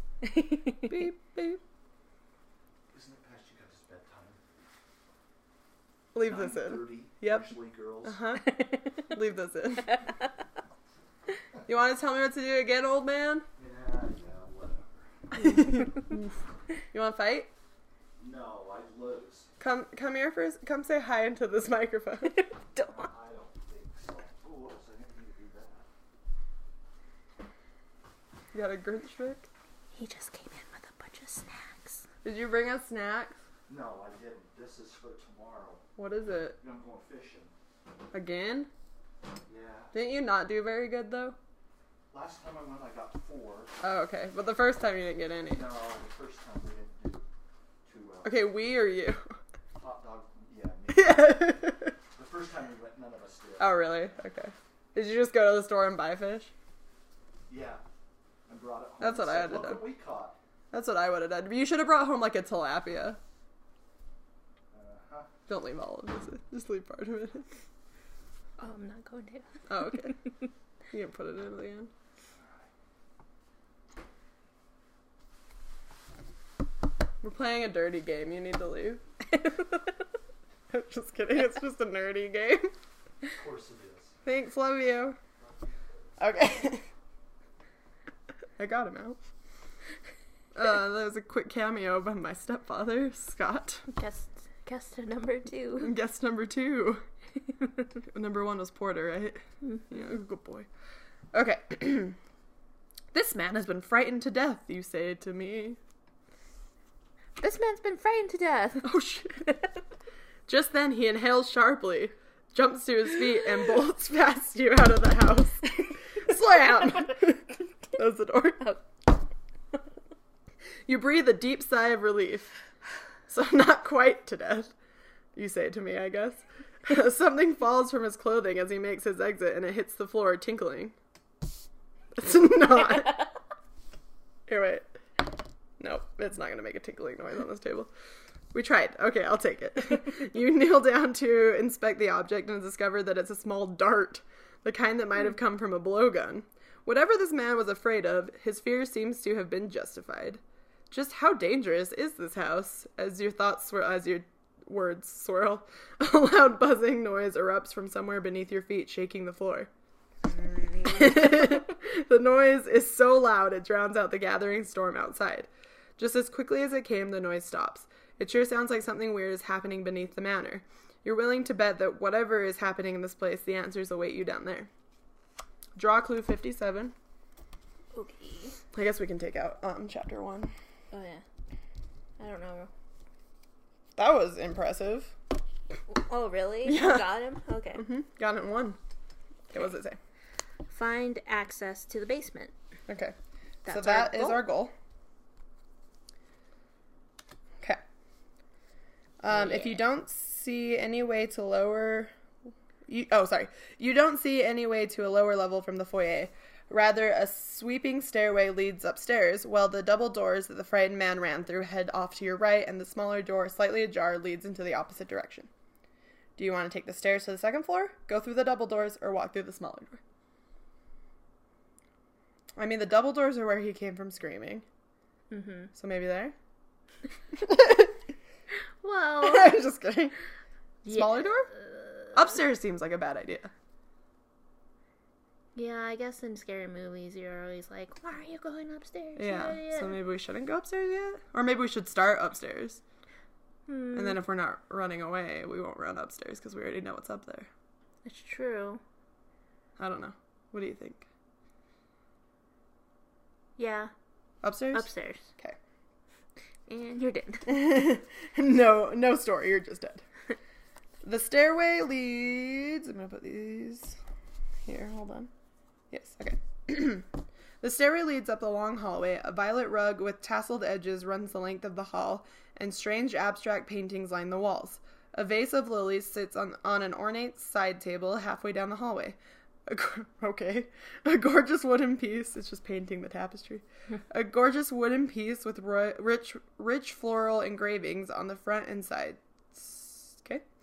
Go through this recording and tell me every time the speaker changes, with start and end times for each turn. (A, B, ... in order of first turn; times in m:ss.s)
0:00.2-0:01.0 A
0:00.9-0:01.6 B
0:02.9-0:04.6 C
0:06.1-0:07.5 B
0:06.2-0:08.2 C
0:08.0-0:10.0 B
0:11.7-0:13.4 B
0:13.6-0:15.4 C
0:15.3-0:16.3 B
0:16.9-0:17.5 B
0:18.2-0:19.5 C
0:19.6-0:22.4 B
0:22.2-0:23.1 A
0:22.8-0:25.9 C
0:28.5-0:29.4 B
0:29.9-0:32.0 A
0:32.2-0:33.4 B
0:33.7-0:35.9 C
0:36.0-0:36.6 B
0:36.6-0:37.5 C
0:38.1-0:38.7 B
0:39.5-0:39.9 C
0:39.9-0:41.4 B
0:42.1-0:43.8 C
0:43.8-0:45.7 B
0:45.5-0:47.3 C
0:47.9-0:48.4 C
0:48.2-0:49.2 B
0:49.8-0:53.8 C
0:50.9-0:51.9 B
0:53.6-0:56.5 B
0:57.5-0:57.8 C
0:58.5-1:00.4 C
0:59.0-0:59.9 B
1:00.7-1:03.2 B
1:04.7-1:05.3 C
1:05.5-1:07.5 B
1:08.6-1:10.1 A
1:09.7-1:10.2 B
1:10.9-1:11.9 B
1:12.4-1:12.7 C
1:17.2-1:19.0 B
1:20.7-1:22.7 B
1:23.2-1:24.2 C
1:24.2-1:25.2 B
1:26.2-1:26.8 B
1:28.6-1:29.2 B
1:30.5-1:33.9 B
1:33.9-1:35.9 A
1:35.8-1:37.0 B
1:38.1-1:40.7 B
1:41.3-1:42.2 B
1:43.1-1:45.8 B
1:47.4-1:49.0 A
1:48.8-1:49.5 B
1:50.5-1:58.7 B
2:00.9-2:02.5 B
2:03.3-2:04.7 B
2:05.4-2:10.9 B
2:12.1-2:13.3 B
2:14.5-2:14.9 B
2:15.8-2:17.9 B
2:18.5-2:39.7 B
2:40.3-2:41.4 A
2:40.8-2:54.7 B
2:55.8-2:56.9 B
2:57.9-2:58.6 A
2:58.7-3:00.5 B
3:00.9-3:01.2 A
3:02.2-3:02.7 A
3:04.0-3:05.1 B
3:05.9-3:07.9 A
3:06.6-3:07.1 B
3:07.8-3:08.8 B
3:09.5-3:10.0 B
3:10.7-3:12.5 A
3:12.9-3:13.1 B
3:13.6-3:14.4 A
3:13.6-3:14.7 B
3:19.2-3:22.1 B
3:19.3-3:19.7 A
3:22.9-3:35.5 B
3:36.4-3:40.0 B
3:42.6-3:44.6 B
3:45.3-3:45.7 A
3:45.8-3:46.4 B
3:47.3-3:47.9 B
3:48.8-3:49.6 A
3:49.2-3:50.2 B
3:50.8-3:51.5 B
3:50.8-3:52.1 A
3:52.1-3:53.5 B
3:55.5-4:00.0 A
3:59.2-4:02.8 B
4:03.7-4:04.2 A
4:03.9-4:07.5 B
4:08.0-4:08.8 A
4:09.8-4:11.0 B
4:13.6-4:13.9 A
4:14.4-4:15.6 B
4:14.7-4:15.3 A
4:16.7-4:17.6 A
4:17.4-4:20.0 B
4:21.0-4:24.0 B
4:24.6-4:25.3 B
4:25.9-4:27.1 B
4:27.6-4:50.5 B